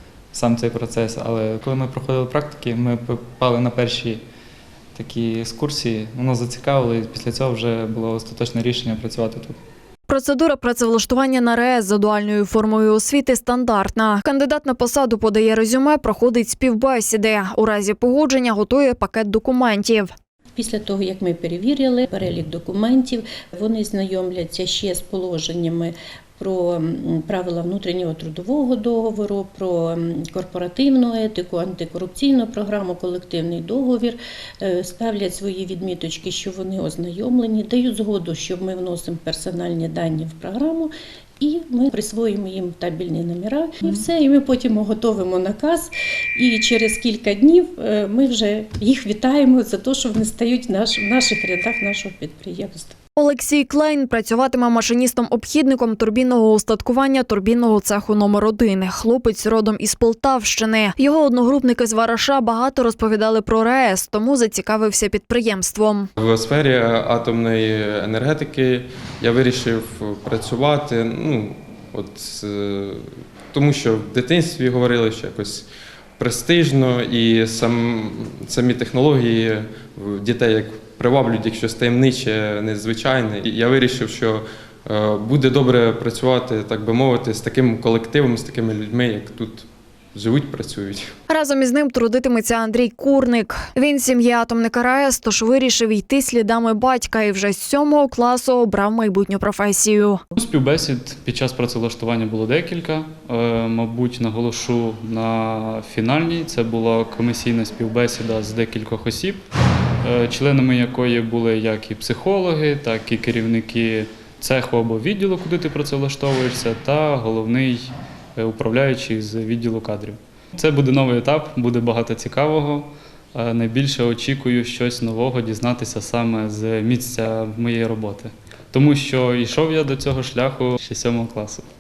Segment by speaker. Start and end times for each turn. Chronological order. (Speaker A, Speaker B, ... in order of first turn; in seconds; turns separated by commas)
Speaker A: 0.3-4.2, Speaker A: 5.0-9.6, Speaker B: 10.1-20.1, Speaker C: 20.6-53.0, Speaker B: 53.2-66.1, Speaker D: 66.2-75.7, Speaker D: 76.2-91.1, Speaker B: 91.3-100.2, Speaker E: 100.4-109.4, Speaker E: 110.0-131.6